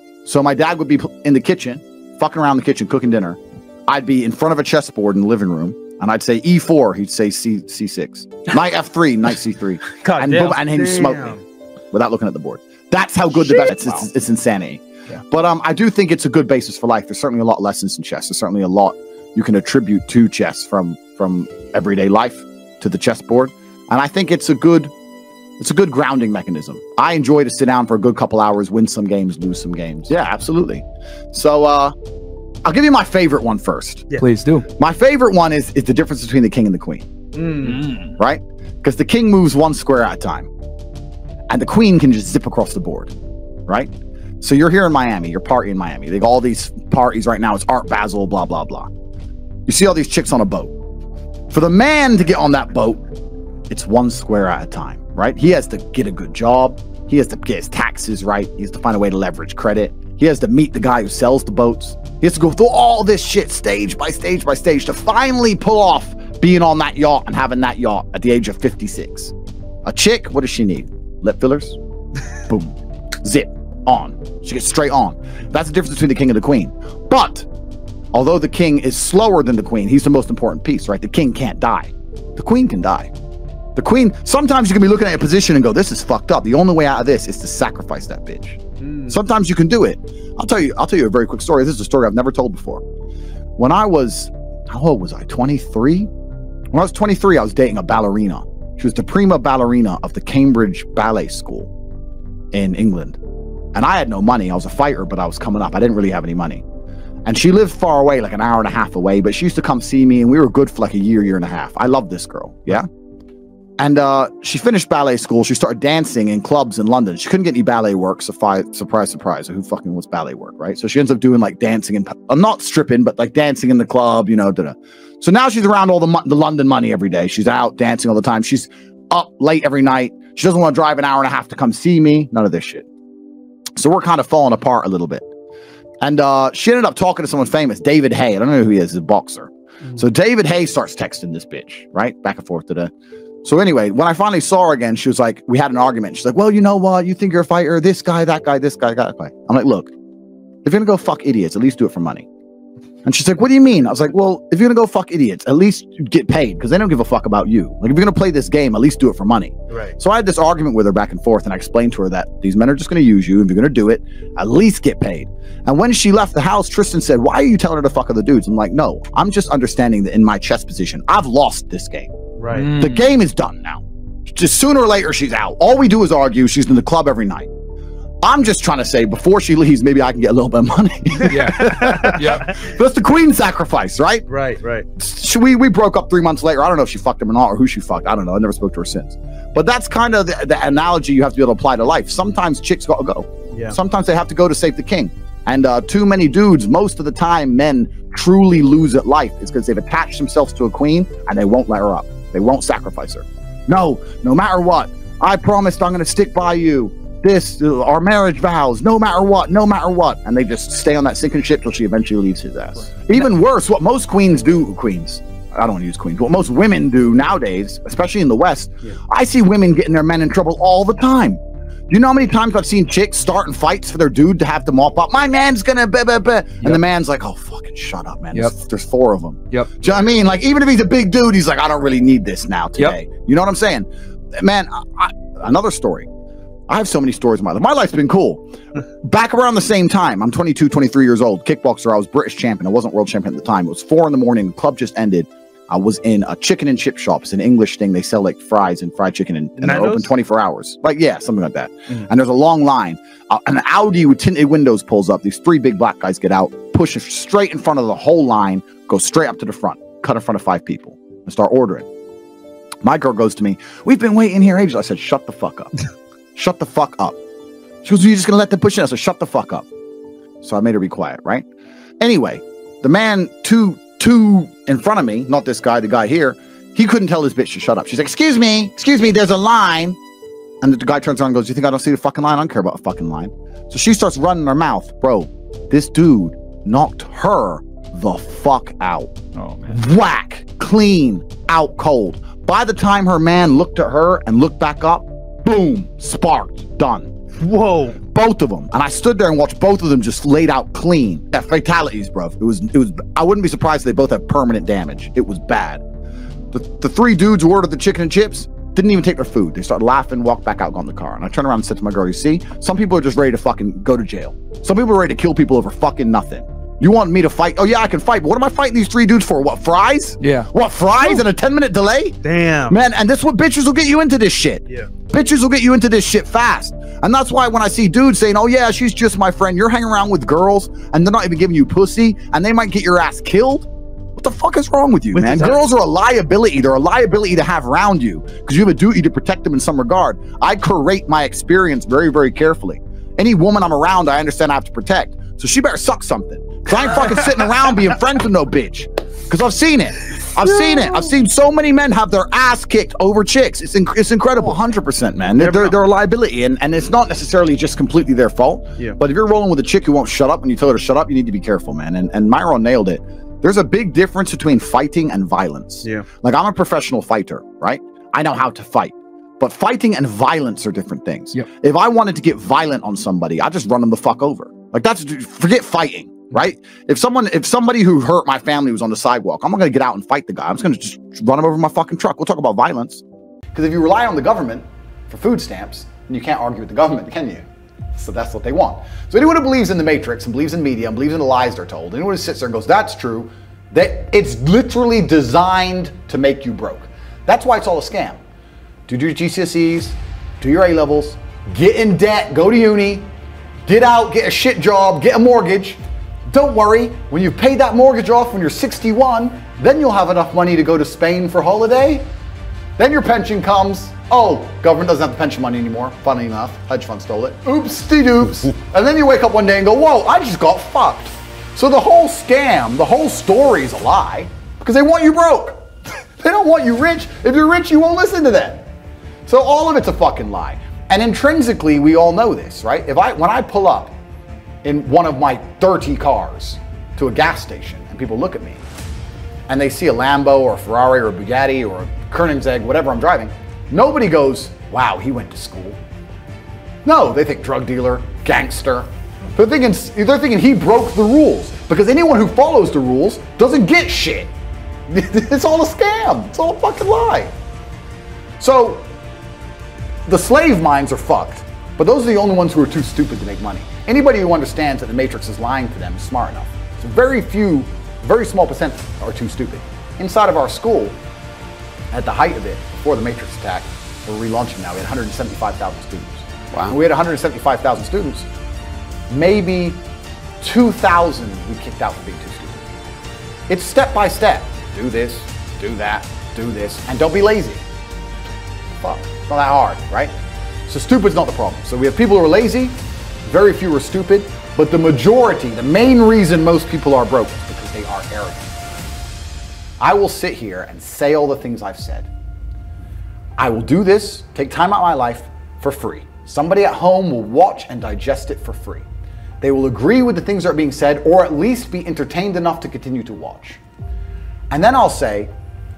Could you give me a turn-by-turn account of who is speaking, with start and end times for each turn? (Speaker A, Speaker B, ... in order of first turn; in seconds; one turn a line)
Speaker A: 0.2-11.4
Speaker B: 10.0-11.4
Speaker A: 11.9-24.9
Speaker A: 25.6-31.9
Speaker A: 32.6-34.1
Speaker C: 34.2-34.6
Speaker A: 34.8-37.0
Speaker B: 37.4-37.8
Speaker A: 37.6-40.5
Speaker A: 41.5-43.1
Speaker A: 43.7-48.9
Speaker A: 49.7-50.7
Speaker A: 51.5-53.0
Speaker A: 53.7-69.3
Speaker A: 69.8-71.8
Speaker A: 72.4-72.7
Speaker A: 73.2-77.5
Speaker A: 78.1-83.1
Speaker A: 83.8-92.8
Speaker A: 93.6-96.1
Speaker A: 96.7-101.7
Speaker A: 102.5-103.2
Speaker A: 103.7-106.6
Speaker A: 107.2-112.9
Speaker A: 113.8-132.8
Speaker A: 133.8-135.3
Speaker A: 136.0-142.9
Speaker A: 143.4-149.9
Speaker A: 150.6-152.3
Speaker A: 153.0-172.1
Speaker B: 159.7-159.9
Speaker B: 172.4-172.7
Speaker C: 172.6-173.0
Speaker A: 172.7-177.5
Speaker A: 178.2-184.2
Speaker C: 181.3-182.5
Speaker B: 184.3-184.8
Speaker A: 185.0-236.1
Speaker A: 236.7-238.4
Speaker A: 239.0-261.9
Speaker B: 249.6-250.1
Speaker A: 262.8-265.7
Speaker A: 266.3-267.2
Speaker A: 267.8-269.6
Speaker A: 270.4-271.4
Speaker A: 272.0-280.0
Speaker A: 280.6-289.1
Speaker A: 289.6-297.1
Speaker B: 297.4-298.0
Speaker A: 298.0-305.8
Speaker A: 306.5-322.2
Speaker C: 320.2-320.5
Speaker B: 322.2-322.8
Speaker A: 322.7-383.0
Speaker B: 335.1-335.6
Speaker B: 355.4-355.7
Speaker A: 383.5-387.4
Speaker A: 387.9-398.2
Speaker A: 398.9-403.1
Speaker A: 403.6-412.0
Speaker A: 412.8-425.7
Speaker A: 426.2-428.6
Speaker A: 429.3-433.9
Speaker A: 434.6-438.6
Speaker A: 439.5-445.8
Speaker A: 446.8-454.3
Speaker A: 454.9-457.3
Speaker A: 458.4-458.9
Speaker A: 460.1-470.9
Speaker A: 471.9-478.3
Speaker A: 479.1-479.8
Speaker A: 480.4-482.6
Speaker A: 483.5-487.6
Speaker A: 488.8-490.1
Speaker A: 490.7-492.7
Speaker A: 493.2-498.5
Speaker A: 499.8-502.1
Speaker A: 503.4-508.8
Speaker A: 509.4-513.6
Speaker A: 514.5-515.3